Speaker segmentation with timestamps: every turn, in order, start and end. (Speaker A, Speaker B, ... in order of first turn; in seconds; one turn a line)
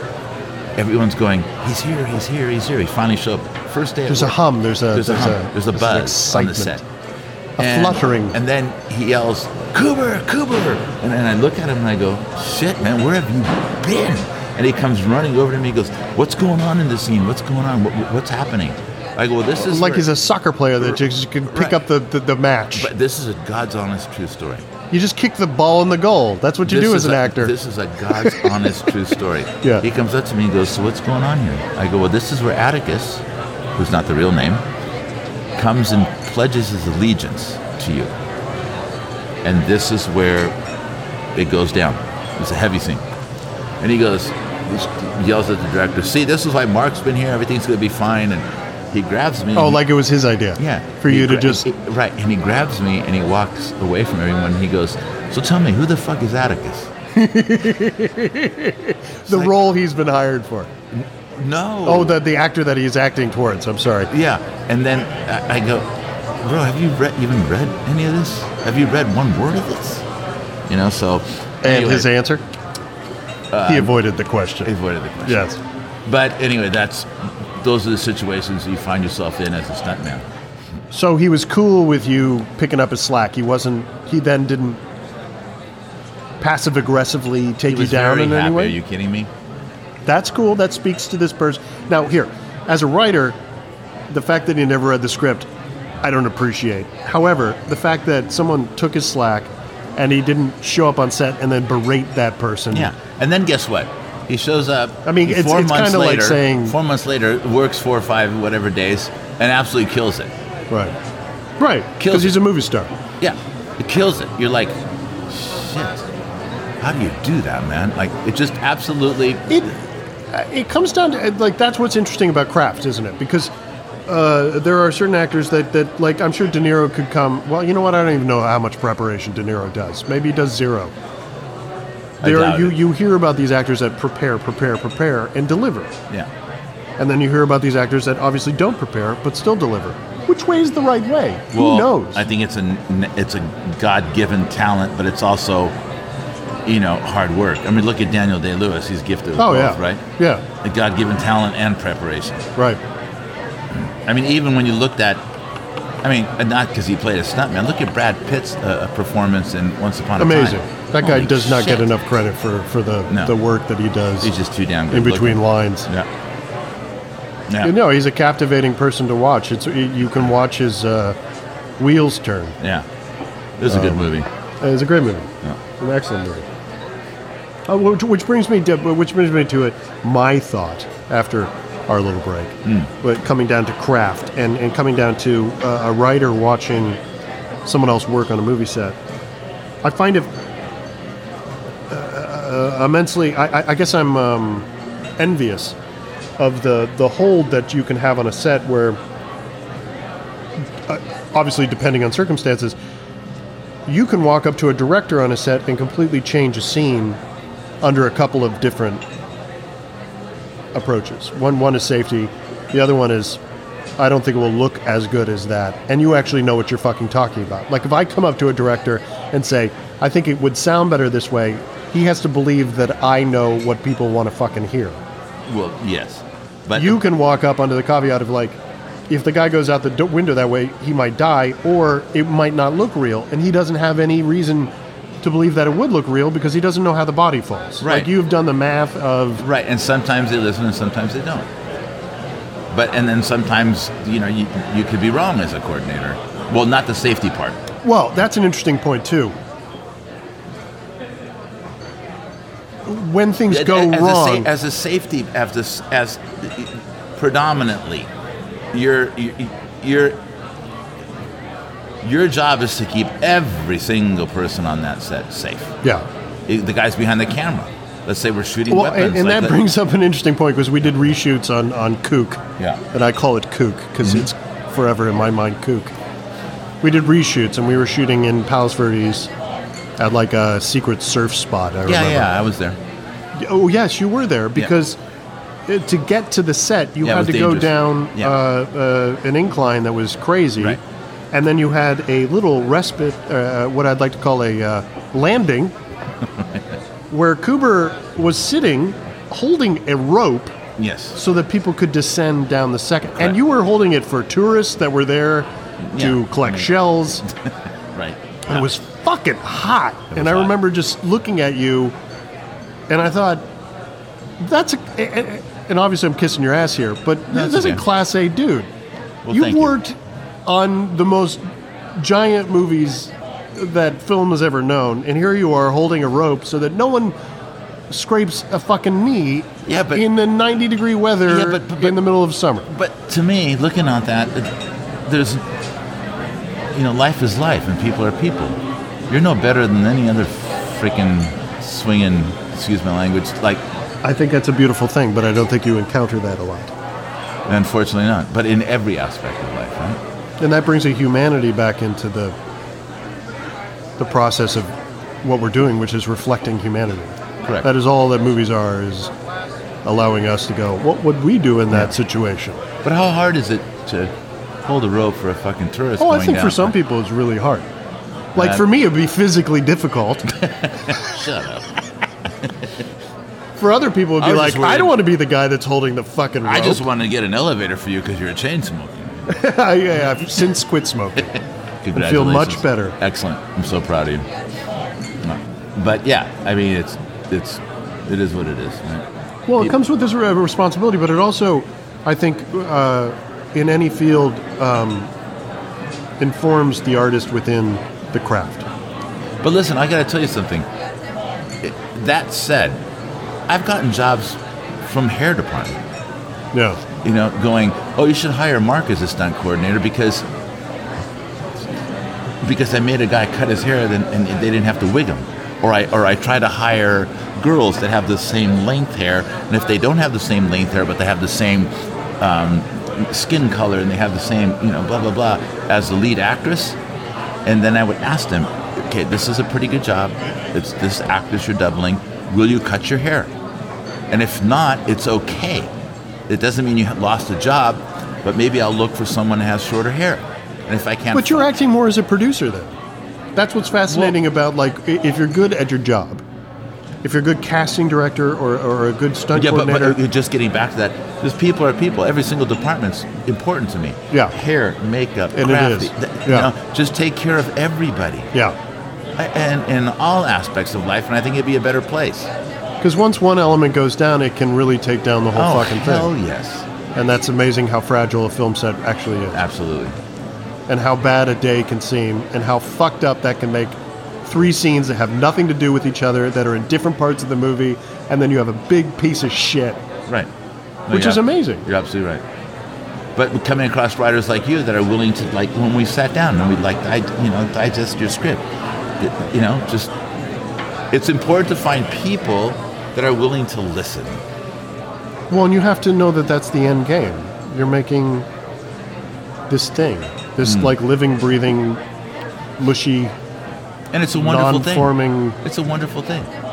Speaker A: 0.8-4.3
Speaker B: 4.1-6.8
Speaker A: 4.9-6.8
Speaker B: 7.6-8.3
Speaker A: 7.6-20.1
Speaker B: 19.6-22.9
Speaker A: 21.5-21.8
Speaker A: 22.7-24.7
Speaker B: 24.9-27.5
Speaker A: 26.6-34.6
Speaker B: 28.1-28.5
Speaker A: 35.6-38.1
Speaker A: 39.4-40.5
Speaker A: 41.3-43.0
Speaker A: 43.8-49.8
Speaker B: 49.5-51.6
Speaker A: 50.6-56.9
Speaker B: 57.1-60.7
Speaker A: 59.3-59.5
Speaker A: 60.9-62.2
Speaker B: 61.8-64.1
Speaker A: 64.1-70.0
Speaker A: 70.7-72.1
Speaker B: 71.6-72.4
Speaker A: 73.5-73.9
Speaker B: 73.7-74.7
Speaker A: 74.6-75.5
Speaker B: 75.2-75.6
Speaker A: 76.0-80.2
Speaker B: 80.9-84.8
Speaker B: 86.4-88.8
Speaker A: 87.7-89.3
Speaker B: 90.0-93.4
Speaker B: 94.1-95.5
Speaker B: 96.0-102.9
Speaker A: 102.7-110.3
Speaker B: 105.0-106.8
Speaker B: 110.7-110.9
Speaker B: 111.6-112.9
Speaker A: 112.0-112.3
Speaker A: 113.2-116.1
Speaker A: 116.8-119.7
Speaker B: 119.5-119.8
Speaker B: 120.3-123.5
Speaker B: 124.1-130.9
Speaker A: 132.2-132.8
Speaker B: 132.2-135.9
Speaker B: 137.0-142.2
Speaker A: 141.5-145.8
Speaker A: 146.7-150.0
Speaker B: 149.4-150.4
Speaker A: 150.6-152.5
Speaker A: 153.7-155.3
Speaker A: 156.0-161.9
Speaker B: 160.2-164.3
Speaker A: 163.1-163.3
Speaker A: 164.2-166.1
Speaker B: 164.9-165.9
Speaker A: 167.5-167.8
Speaker B: 167.6-171.2
Speaker B: 171.8-172.6
Speaker A: 172.6-172.9
Speaker A: 173.6-174.3
Speaker B: 173.7-174.0
Speaker B: 174.6-176.4
Speaker B: 177.7-187.0
Speaker B: 187.6-189.0
Speaker B: 189.8-190.3
Speaker B: 191.9-195.7
Speaker B: 196.4-199.0
Speaker B: 200.8-202.8
Speaker B: 203.9-207.2
Speaker B: 207.8-209.0
Speaker B: 210.7-213.4
Speaker B: 214.0-225.0
Speaker A: 225.5-227.0
Speaker B: 226.7-234.7
Speaker B: 235.2-239.4
Speaker A: 237.8-238.1
Speaker A: 239.4-241.5
Speaker A: 242.7-247.6
Speaker B: 247.8-249.3
Speaker B: 252.8-254.5
Speaker A: 253.5-258.1
Speaker A: 258.7-260.2
Speaker A: 262.0-265.8
Speaker A: 266.5-269.6
Speaker B: 268.7-275.9
Speaker B: 276.8-279.3
Speaker B: 280.0-282.3
Speaker A: 281.9-282.8
Speaker B: 283.3-285.0
Speaker B: 285.7-290.8
Speaker A: 287.0-288.4
Speaker B: 291.3-295.7
Speaker B: 297.1-300.5
Speaker A: 300.8-301.2
Speaker B: 301.1-307.2
Speaker A: 305.8-306.7
Speaker A: 307.2-308.7
Speaker B: 308.4-311.9
Speaker A: 310.1-310.5
Speaker B: 312.9-313.4
Speaker B: 314.4-318.7
Speaker A: 317.3-317.8
Speaker A: 319.2-319.8
Speaker B: 319.3-321.4
Speaker B: 322.0-327.1
Speaker B: 327.9-332.7
Speaker A: 329.6-330.0
Speaker A: 331.3-332.0
Speaker A: 332.7-335.5
Speaker A: 336.7-343.6
Speaker B: 344.0-346.7
Speaker A: 347.5-350.0
Speaker B: 350.4-352.4
Speaker B: 354.0-359.1
Speaker B: 359.8-362.6
Speaker A: 362.8-364.1
Speaker A: 364.6-366.8
Speaker B: 366.0-367.7
Speaker B: 368.3-370.4
Speaker A: 368.4-368.6
Speaker A: 370.4-372.8
Speaker B: 373.6-376.8
Speaker A: 374.2-375.0
Speaker A: 376.4-379.4
Speaker B: 379.3-381.4
Speaker A: 381.8-384.3
Speaker B: 381.9-383.0
Speaker A: 385.2-389.1
Speaker B: 389.5-395.1
Speaker B: 396.2-398.6
Speaker A: 399.4-400.7
Speaker A: 401.6-402.8
Speaker A: 403.5-405.8
Speaker B: 406.5-406.8
Speaker A: 407.0-410.2
Speaker A: 412.4-426.8
Speaker A: 427.4-433.3
Speaker A: 434.1-435.7
Speaker A: 436.3-441.5
Speaker B: 441.1-442.7
Speaker B: 443.4-446.2
Speaker A: 443.9-444.2
Speaker B: 447.0-450.0
Speaker A: 449.3-458.3
Speaker B: 454.1-454.4
Speaker B: 455.3-456.5
Speaker A: 459.1-462.3
Speaker B: 462.8-466.1
Speaker A: 465.3-466.7
Speaker B: 466.9-469.4
Speaker A: 469.3-469.9
Speaker B: 470.7-479.8
Speaker A: 480.9-482.2
Speaker B: 480.9-481.6
Speaker A: 483.1-488.5
Speaker A: 489.0-489.9
Speaker A: 490.9-494.2
Speaker B: 495.3-498.3
Speaker B: 499.5-501.8
Speaker A: 500.4-500.7
Speaker B: 502.6-503.1
Speaker A: 503.9-506.3
Speaker B: 504.1-505.4